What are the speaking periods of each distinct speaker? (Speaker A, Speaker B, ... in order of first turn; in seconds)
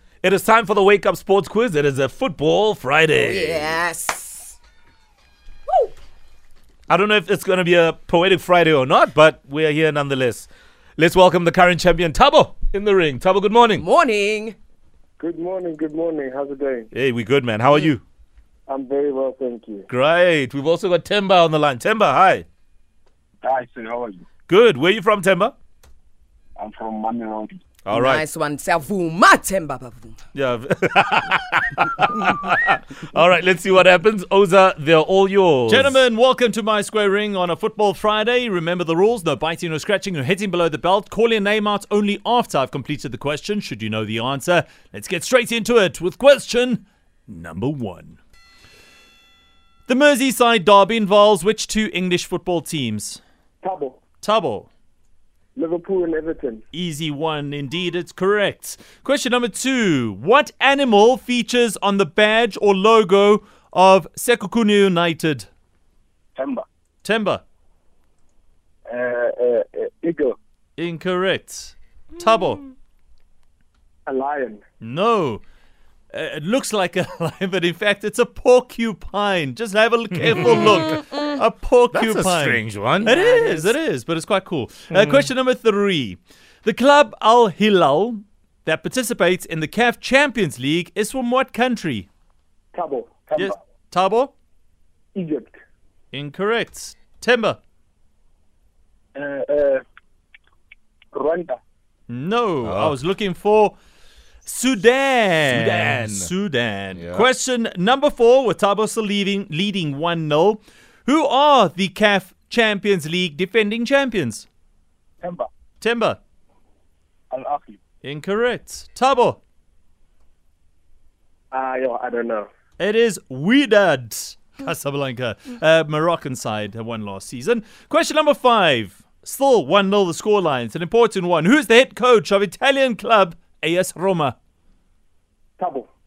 Speaker A: 0.2-3.8, 6.9-13.8, 16.9-18.0, 19.9-22.4, 24.5-25.5, 27.8-28.2, 30.3-36.0, 81.9-83.2, 84.9-85.3, 102.6-102.9, 105.5-106.3, 106.9-107.3
Speaker B: 3.1-4.5, 13.7-14.6, 27.9-30.2, 83.3-83.6
Speaker C: 15.2-16.9, 18.7-19.9, 53.6-54.0, 55.6-56.5, 74.1-74.6, 92.8-93.5, 95.2-95.5, 99.2-99.8, 101.1-101.5, 121.5-122.4, 135.6-135.8
Speaker D: 23.4-24.2, 26.6-27.5, 68.9-70.3, 117.4-117.8
Speaker E: 35.7-48.2, 49.9-53.2, 54.2-54.7, 56.7-65.5, 67.0-67.4, 70.8-72.7, 74.8-75.4, 76.1-92.1, 93.4-94.3, 96.1-97.6, 102.1-103.8, 104.4-114.5, 115.8-116.2, 118.0-119.4, 122.8-134.3